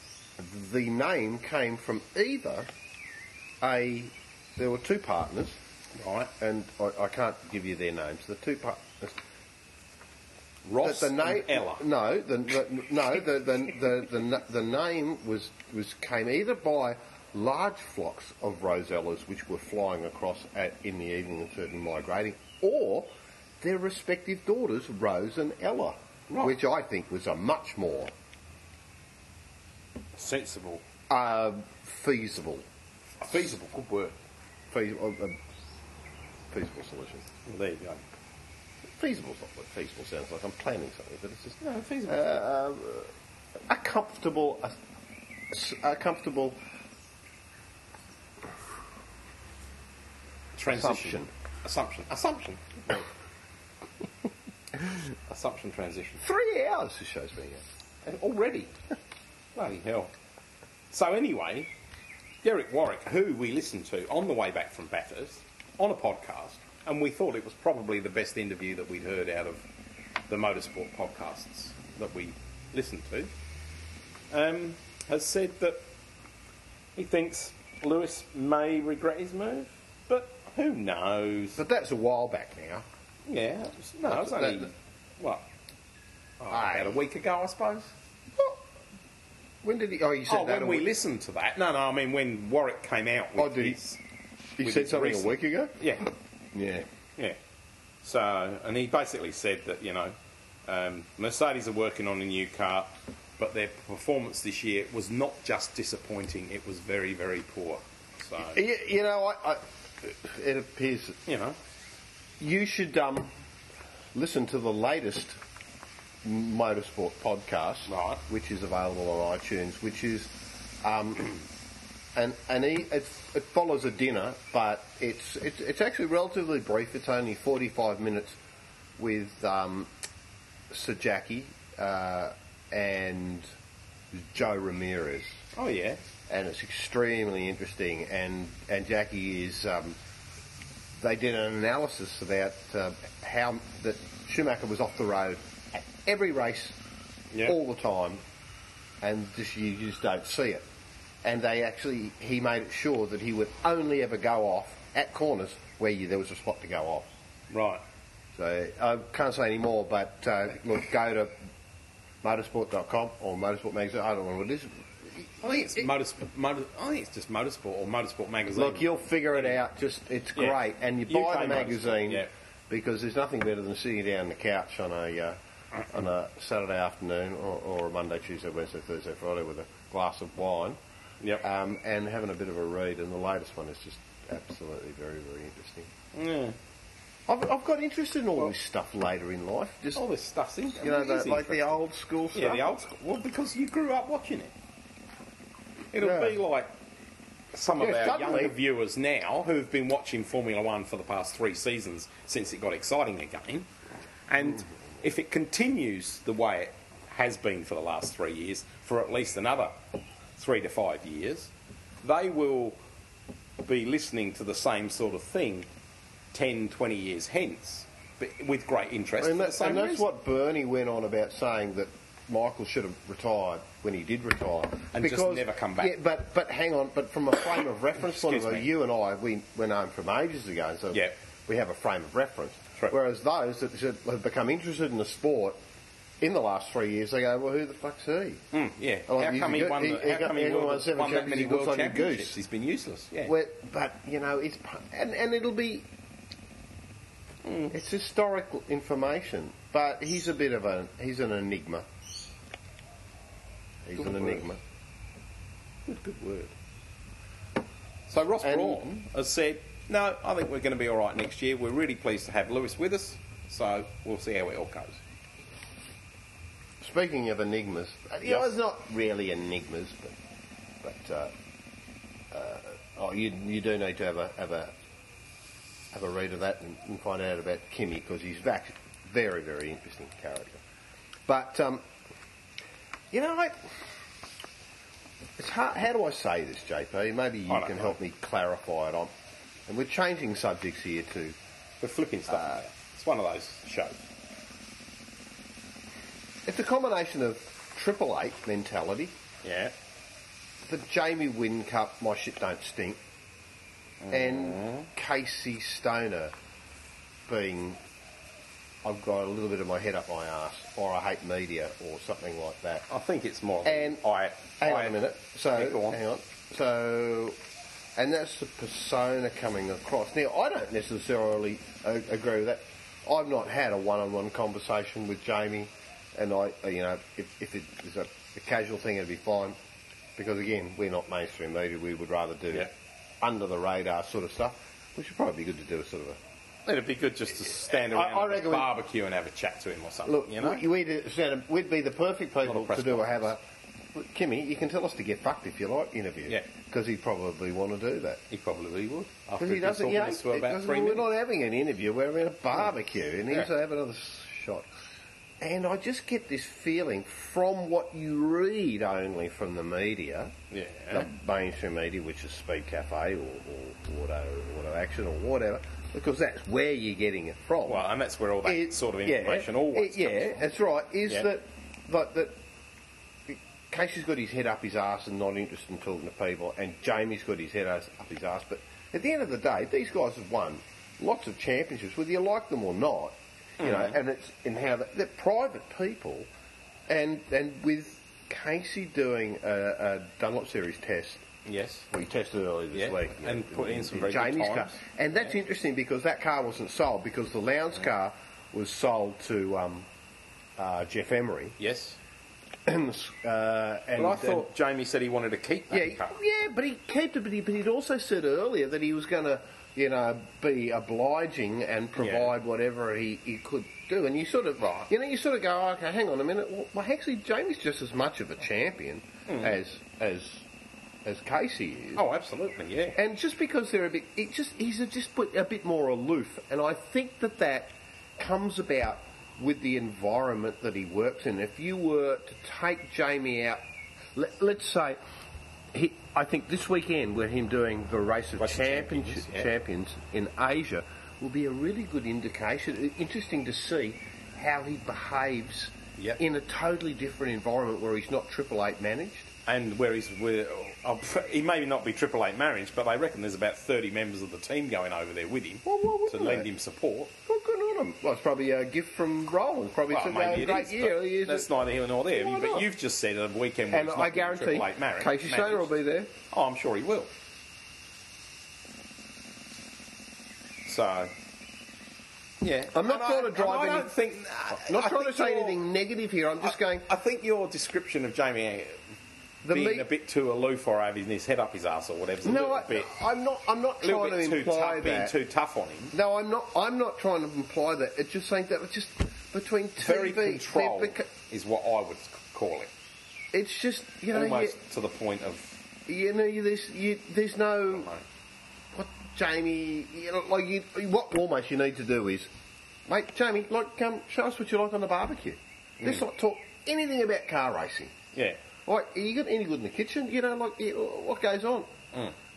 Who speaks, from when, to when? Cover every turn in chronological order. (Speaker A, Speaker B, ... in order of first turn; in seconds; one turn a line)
Speaker A: 0.4-2.7
Speaker A: 3.6-5.6
Speaker B: 5.9-6.3
Speaker A: 6.4-9.2
Speaker B: 10.6-11.9
Speaker A: 10.8-28.1
Speaker B: 26.3-26.6
Speaker B: 30.1-30.8
Speaker A: 31.1-32.6
Speaker B: 33.2-34.1
Speaker A: 34.7-35.4
Speaker A: 36.5-37.3
Speaker B: 37.5-38.0
Speaker A: 39.0-43.1
Speaker B: 41.6-42.3
Speaker A: 43.7-44.7
Speaker A: 45.5-46.6
Speaker B: 50.5-53.1
Speaker A: 50.6-51.3
Speaker B: 55.3-56.2
Speaker A: 56.2-57.6
Speaker B: 58.0-58.7
Speaker B: 59.5-60.1
Speaker B: 60.9-61.7
Speaker B: 62.4-69.6
Speaker B: 70.3-73.3
Speaker B: 74.3-75.8
Speaker B: 77.0-81.6
Speaker A: 81.6-82.9
Speaker B: 83.3-85.4
Speaker A: 84.0-84.7
Speaker B: 86.4-87.9
Speaker A: 86.5-87.0
Speaker A: 89.6-90.9
Speaker B: 90.3-94.0
Speaker A: 93.4-93.8
Speaker A: 94.6-95.8
Speaker B: 94.6-96.1
Speaker A: 96.5-96.9
Speaker B: 98.0-100.2
Speaker B: 100.7-108.6
Speaker A: 108.4-111.2
Speaker B: 111.2-111.6
Speaker A: 112.4-113.3
Speaker A: 114.1-115.4
Speaker A: 116.2-120.3
Speaker B: 117.9-118.2
Speaker A: 120.8-121.4
Speaker A: 122.1-128.4
Speaker A: 129.0-129.9
Speaker A: 130.7-133.5
Speaker A: 134.1-135.4
Speaker B: 135.5-136.0
Speaker A: 136.3-140.0
Speaker A: 141.0-146.8
Speaker B: 147.3-147.6
Speaker A: 147.4-148.2
Speaker A: 149.0-150.6
Speaker A: 151.2-157.1
Speaker B: 157.5-157.8
Speaker A: 158.3-161.3
Speaker A: 162.2-165.9
Speaker B: 165.4-169.6
Speaker A: 168.5-175.4
Speaker B: 170.4-172.3
Speaker A: 175.9-180.8
Speaker A: 181.4-185.9
Speaker B: 186.1-186.6
Speaker A: 187.3-190.0
Speaker B: 189.9-191.8
Speaker A: 190.8-192.7
Speaker B: 192.3-194.5
Speaker B: 195.9-196.7
Speaker A: 196.0-196.4
Speaker B: 197.5-203.7
Speaker A: 197.8-198.6
Speaker B: 204.3-209.8
Speaker B: 210.4-211.5
Speaker B: 212.0-212.8
Speaker B: 213.6-215.7
Speaker B: 216.3-220.1
Speaker A: 219.2-235.6
Speaker B: 224.9-225.9
Speaker B: 228.0-228.7
Speaker A: 236.2-238.4
Speaker B: 238.5-243.3
Speaker A: 239.1-242.4
Speaker A: 243.2-245.9
Speaker B: 247.4-247.7
Speaker A: 247.7-251.9
Speaker A: 253.8-254.6
Speaker B: 253.9-254.5
Speaker B: 255.9-256.5
Speaker B: 258.1-265.0
Speaker A: 258.4-258.8
Speaker A: 266.8-270.1
Speaker B: 268.2-268.5
Speaker A: 270.8-271.3
Speaker A: 272.3-274.7
Speaker A: 275.9-280.6
Speaker A: 281.3-281.8
Speaker A: 283.1-283.9
Speaker A: 285.4-289.1
Speaker B: 287.5-287.9
Speaker A: 289.7-291.4
Speaker B: 291.8-293.9
Speaker A: 296.4-299.1
Speaker B: 299.4-299.7
Speaker A: 300.6-303.0
Speaker B: 304.0-304.9
Speaker A: 304.1-306.3
Speaker A: 307.3-307.8
Speaker A: 308.8-312.9
Speaker B: 312.9-316.0
Speaker A: 313.6-314.0
Speaker A: 314.6-317.4
Speaker A: 317.9-329.6
Speaker A: 330.1-332.7
Speaker A: 333.2-336.2
Speaker B: 336.6-340.6
Speaker A: 337.6-338.7
Speaker A: 340.0-343.4
Speaker B: 342.4-343.3
Speaker A: 343.9-348.2
Speaker B: 348.3-351.1
Speaker A: 349.4-354.8
Speaker A: 355.4-360.3
Speaker B: 360.5-361.1
Speaker A: 360.9-367.9
Speaker B: 367.6-370.4
Speaker A: 368.4-372.4
Speaker A: 373.3-386.3
Speaker B: 383.6-384.0
Speaker A: 386.9-391.2
Speaker B: 391.4-391.9
Speaker A: 391.9-399.9
Speaker B: 392.7-394.8
Speaker A: 400.6-401.6
Speaker B: 401.6-402.0
Speaker A: 402.6-404.5
Speaker B: 404.0-406.1
Speaker A: 405.7-420.5
Speaker B: 412.0-412.3
Speaker B: 414.6-414.9
Speaker B: 419.3-419.6
Speaker A: 421.0-422.0
Speaker B: 422.0-423.0
Speaker A: 422.9-433.6
Speaker A: 434.1-435.0
Speaker A: 435.7-449.3
Speaker B: 438.4-439.5
Speaker B: 449.5-457.1
Speaker A: 455.6-456.5
Speaker A: 457.2-462.7
Speaker B: 459.9-465.7
Speaker A: 463.7-466.1
Speaker B: 466.3-467.1
Speaker B: 470.6-471.1
Speaker B: 472.4-475.6
Speaker A: 472.7-473.9
Speaker A: 474.5-476.9
Speaker B: 476.4-478.8
Speaker A: 479.4-479.9
Speaker B: 479.5-482.9
Speaker A: 482.2-485.1
Speaker B: 483.8-485.9
Speaker A: 485.9-491.1
Speaker B: 489.8-492.7
Speaker A: 493.3-494.6
Speaker B: 494.1-495.6
Speaker A: 495.9-497.9
Speaker B: 497.7-498.0
Speaker A: 498.7-502.3
Speaker A: 502.9-507.9
Speaker B: 508.1-508.4
Speaker A: 508.6-511.7